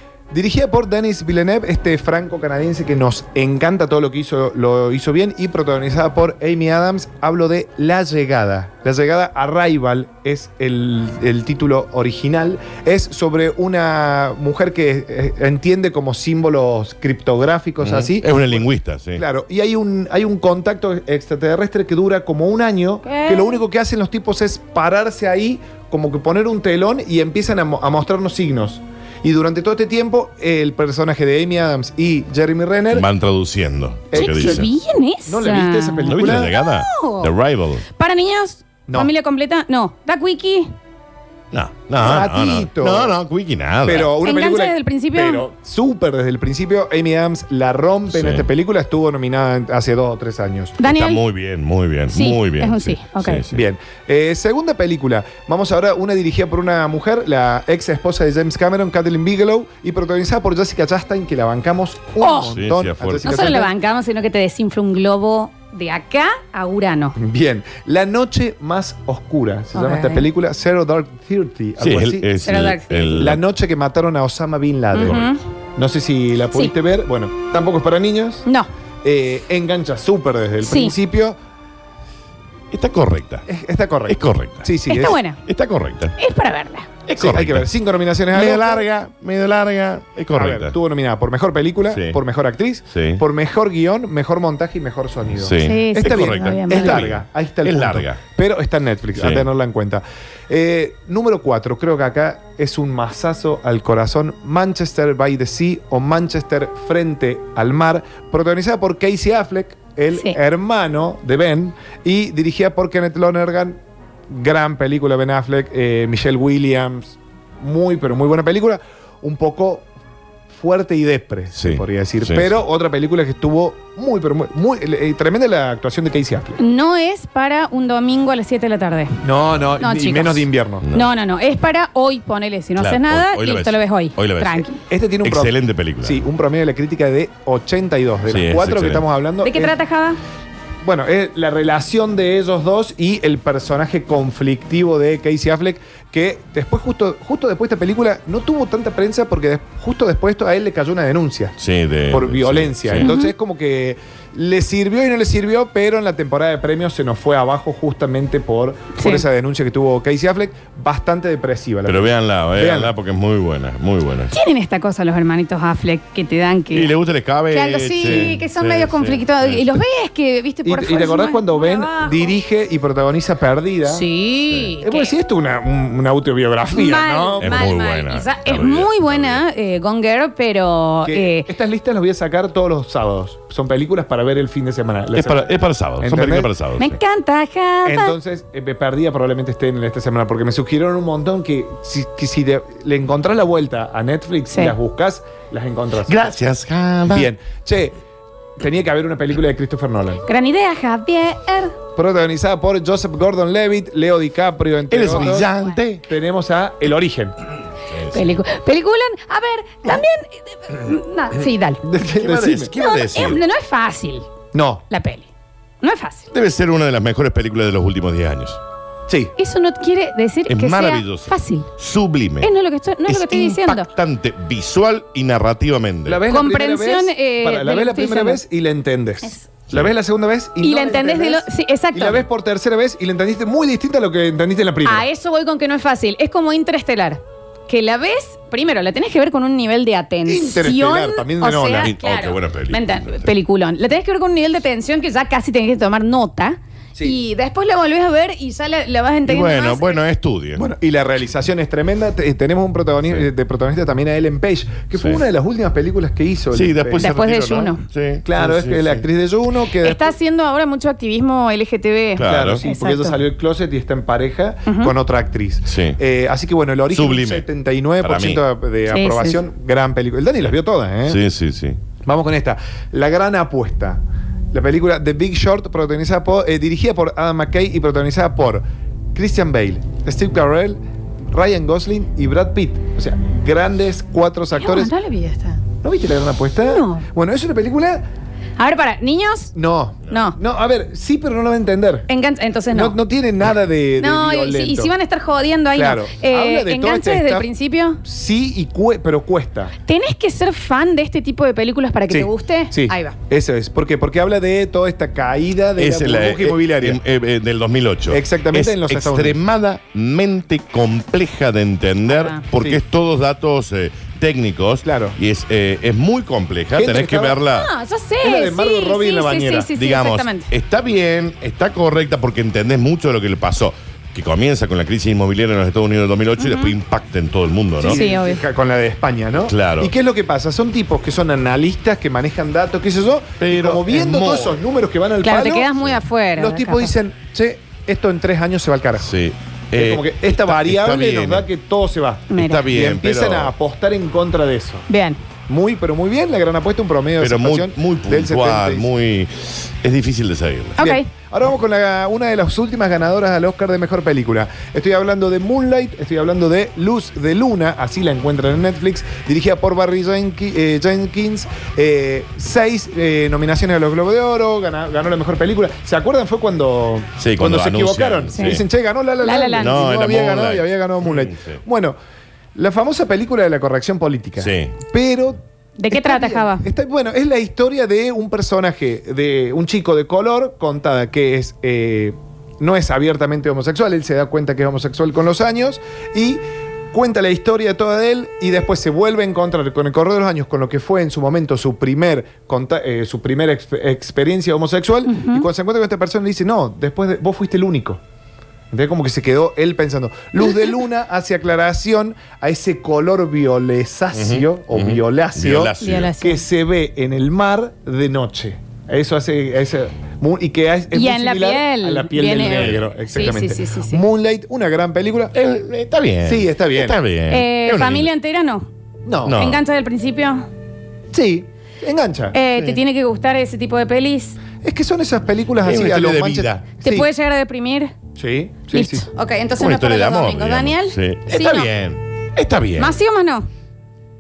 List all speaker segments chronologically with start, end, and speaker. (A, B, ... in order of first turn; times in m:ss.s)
0:00.3-0:33.1 A
0:17.8-0:19.2 B
0:23.0-0:23.6 C
0:32.9-0:34.7 B
0:34.1-0:34.7 A
0:34.1-0:37.3 C
0:35.3-0:36.6 A
0:36.1-0:37.8 B
0:38.0-0:40.7 C
0:41.5-0:44.1 B
0:42.0-0:43.2 A
0:43.8-0:50.8 A
0:44.0-0:45.5 C
0:48.1-0:48.5 B
0:50.8-0:51.2 C
0:50.8-0:53.6 B
0:52.1-0:53.4 C
0:53.5-1:03.7 A
1:02.2-1:02.6 C
1:02.4-1:03.5 B
1:03.2-1:07.2 C
1:07.2-1:12.3 A
1:09.7-1:10.3 C
1:11.8-1:13.4 B
1:12.4-1:13.3 C
1:13.2-1:15.2 A
1:14.9-1:15.4 C
1:15.8-1:18.5 A
1:19.0-1:21.4 A
1:20.6-1:21.0 C
1:22.7-1:23.4 B
1:23.5-1:25.2 A
1:24.1-1:24.7 B
1:24.9-1:25.4 C
1:25.4-1:26.1 B
1:26.2-1:26.9 C
1:27.1-1:27.7 B
1:27.2-1:28.9 A
1:28.3-1:30.8 B
1:30.4-1:59.9 A
1:31.9-1:32.2 B
1:32.9-1:33.2 B
1:35.4-1:38.2 B
1:35.6-1:37.1 C
1:39.2-1:39.5 B
1:50.1-1:50.4 C
2:00.5-2:06.6 A
2:01.5-2:02.6 B
2:06.6-2:09.1 C
2:09.2-2:10.9 A
2:09.8-2:14.8 C
2:10.8-2:11.1 B
2:12.8-2:14.6 B
2:14.9-2:19.7 A
2:15.2-2:16.2 B
2:18.3-2:19.1 B
2:19.4-2:20.2 C
2:20.8-2:31.6 A
2:31.6-2:33.1 B
2:32.1-2:42.9 A
2:33.0-2:33.3 C
2:39.0-2:39.2 C
2:41.8-2:44.3 B
2:44.3-2:46.9 C
2:46.7-2:49.8 B
2:47.5-2:52.4 C
2:48.0-2:48.3 A
2:50.6-2:54.1 A
2:53.9-2:55.1 C
2:54.8-2:57.5 A
2:56.7-3:01.5 C
2:57.4-2:59.4 B
3:01.0-3:06.5 A
3:05.1-3:07.0 B
3:06.8-3:08.2 C
3:07.8-3:16.2 A
3:14.5-3:14.8 C
3:16.0-3:17.3 B
3:17.1-3:18.0 A
3:18.6-3:20.2 A
3:20.2-3:21.8 C
3:22.0-3:25.5 A
3:24.9-3:26.0 B
3:25.3-3:25.8 C
3:26.1-3:27.4 A
3:27.9-3:28.4 B
3:28.1-3:31.8 C
3:31.8-3:32.7 A
3:32.2-3:33.4 B
3:32.7-3:34.3 C
3:34.5-3:34.8 A
3:34.9-3:35.3 C
3:35.8-3:36.3 C
3:36.3-3:38.6 B
3:39.1-3:39.3 A
3:39.4-3:41.7 C
3:40.5-3:42.5 B
3:42.4-3:43.9 C
3:43.1-3:46.2 B
3:46.0-3:55.1 A
3:46.3-3:48.4 C
3:49.2-3:49.5 C
3:50.6-3:52.2 C
3:54.8-4:10.0 C
4:00.3-4:01.9 A
4:01.8-4:03.3 B
4:09.3-4:10.7 B
4:10.6-4:17.2 A
4:15.0-4:15.2 B
4:16.5-4:19.1 B
4:17.0-4:17.8 C
4:18.2-4:20.2 A
4:19.8-4:23.2 C
4:22.2-4:22.6 B
4:22.2-4:31.2 A
4:24.7-4:25.0 C
4:25.7-4:26.0 B
4:26.9-4:27.4 B
4:28.0-4:28.4 B
4:28.9-4:29.4 C
4:31.1-4:31.8 B
4:32.0-4:38.6 A
4:39.2-4:40.8 A
4:41.3-4:44.9 A
4:44.5-4:45.6 C
4:45.8-4:48.0 A
4:46.6-4:47.1 C
4:48.6-4:49.5 C
4:49.6-4:52.1 A
4:50.1-4:50.4 C
4:52.1-4:53.0 C
4:52.7-4:54.9 A
4:54.0-4:58.0 C
4:55.7-4:57.5 A
4:58.0-4:59.7 A
4:59.8-5:03.2 C
5:02.1-5:07.0 A
5:05.8-5:17.7 B
5:08.1-5:09.4 A
5:12.1-5:12.4 C
5:14.8-5:15.2 A
5:16.7-5:17.4 A
5:17.5-5:20.5 C
5:18.2-5:19.7 A
5:19.7-5:28.0 B
5:26.4-5:26.7 C
5:27.8-5:35.8 A
5:27.8-5:28.4 C
5:29.4-5:29.9 B
5:33.4-5:34.6 B
5:35.2-5:36.9 C
5:36.4-5:39.1 A
5:39.0-5:41.5 B
5:39.7-5:44.9 A
5:42.3-5:42.7 C
5:42.3-5:43.5 B
5:44.9-5:45.2 C
5:45.5-5:48.9 A
5:47.2-5:50.8 B
5:50.8-5:51.1 C
5:50.8-6:12.0 A
6:07.2-6:08.6 B
6:08.3-6:08.6 C
6:09.2-6:09.8 C
6:09.6-6:11.6 B
6:12.6-6:15.4 A
6:14.4-6:14.8 B
6:15.8-6:16.6 C
6:15.9-6:26.4 A
6:26.9-6:38.0 A
6:35.1-6:35.5 C
6:38.7-6:55.3 A
6:44.1-6:46.1 B
6:45.8-6:46.4 C
6:50.9-6:54.0 C
6:52.5-6:52.9 B
6:55.3-6:58.1 B
6:56.2-6:57.0 A
6:57.3-6:58.7 C
6:59.1-6:59.4 A
6:59.2-6:59.6 B
6:59.4-7:00.5 C
7:01.1-7:02.8 A
7:02.3-7:04.4 C
7:04.6-7:07.1 A
7:05.6-7:06.7 B
7:06.8-7:07.9 C
7:08.2-7:09.1 A
7:08.7-7:11.7 C
7:09.6-7:13.0 B
7:12.8-7:13.5 C